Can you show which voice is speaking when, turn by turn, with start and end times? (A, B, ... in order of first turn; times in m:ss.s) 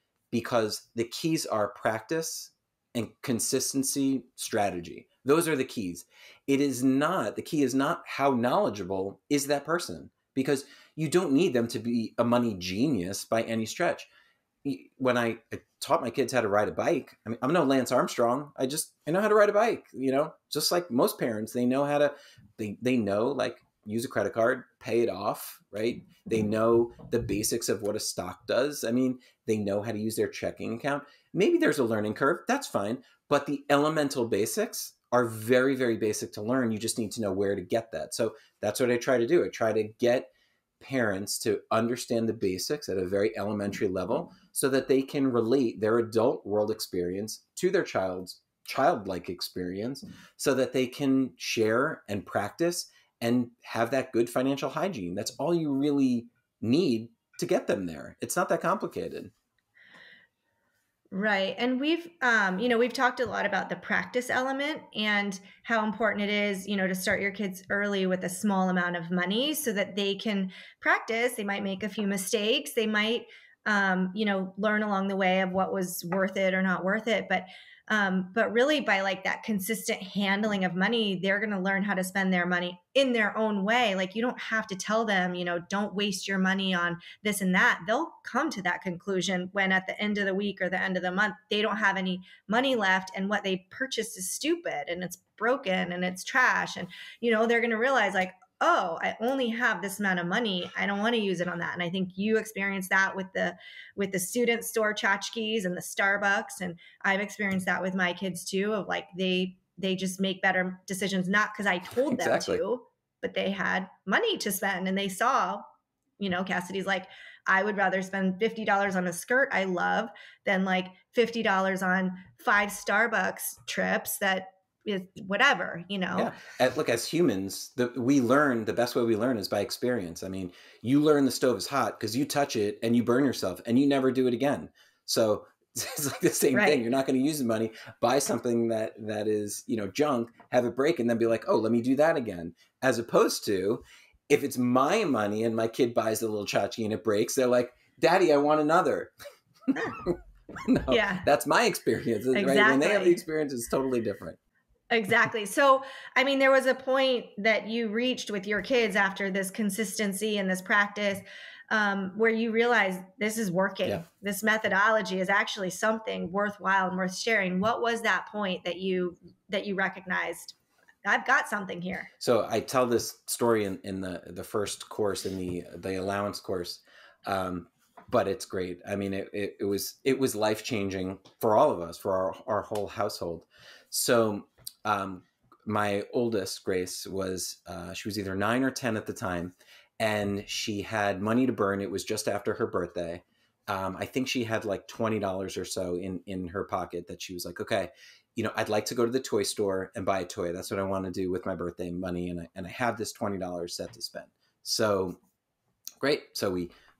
0:00.3-0:14.1 A
0:14.6-0:59.3 A
1:01.1-1:55.6 B
1:52.1-1:52.6 A
1:56.2-2:06.3 B
2:06.1-2:29.1 A
2:16.5-2:16.8 B
2:30.6-2:34.4 A
2:30.9-2:31.2 B
2:32.3-2:33.2 B
2:34.9-2:52.1 B
2:52.2-3:25.2 A
3:26.0-3:26.7 A